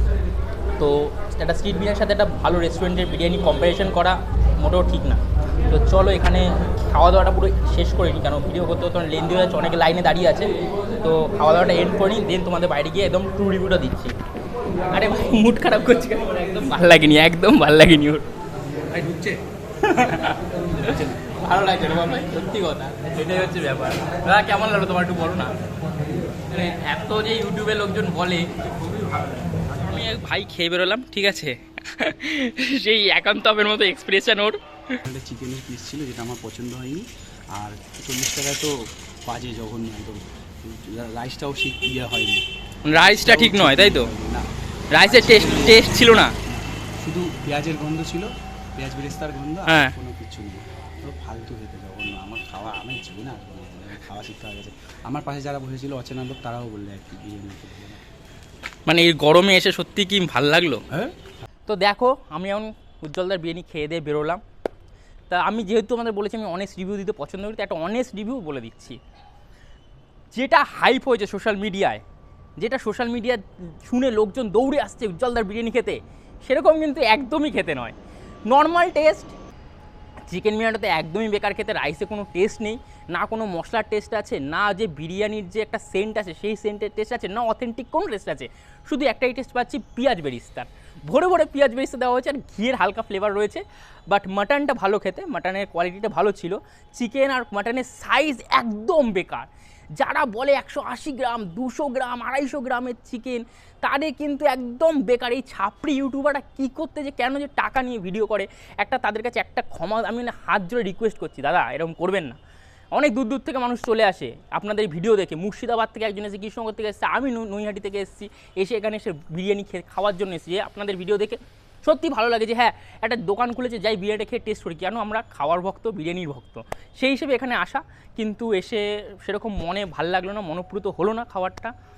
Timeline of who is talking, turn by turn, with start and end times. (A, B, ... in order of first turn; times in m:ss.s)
0:00.8-0:14.1 A
0:14.9-0:18.2 A
0:18.9-0:19.4 B
0:19.8-0:25.5 A
0:20.8-0:21.2 B
0:26.5-0:28.5 A
0:29.7-0:35.0 A
0:35.0-0:38.7 B
0:39.3-0:58.0 B
0:42.8-0:44.1 A
0:44.9-0:46.3 A
0:49.7-0:49.9 A
0:58.9-1:00.8 A
1:01.7-1:04.4 A
1:05.3-1:09.0 A
1:10.3-1:12.0 A
1:12.6-1:17.9 A
1:18.5-1:19.3 A
1:20.3-1:52.4 A
1:52.9-2:11.7 A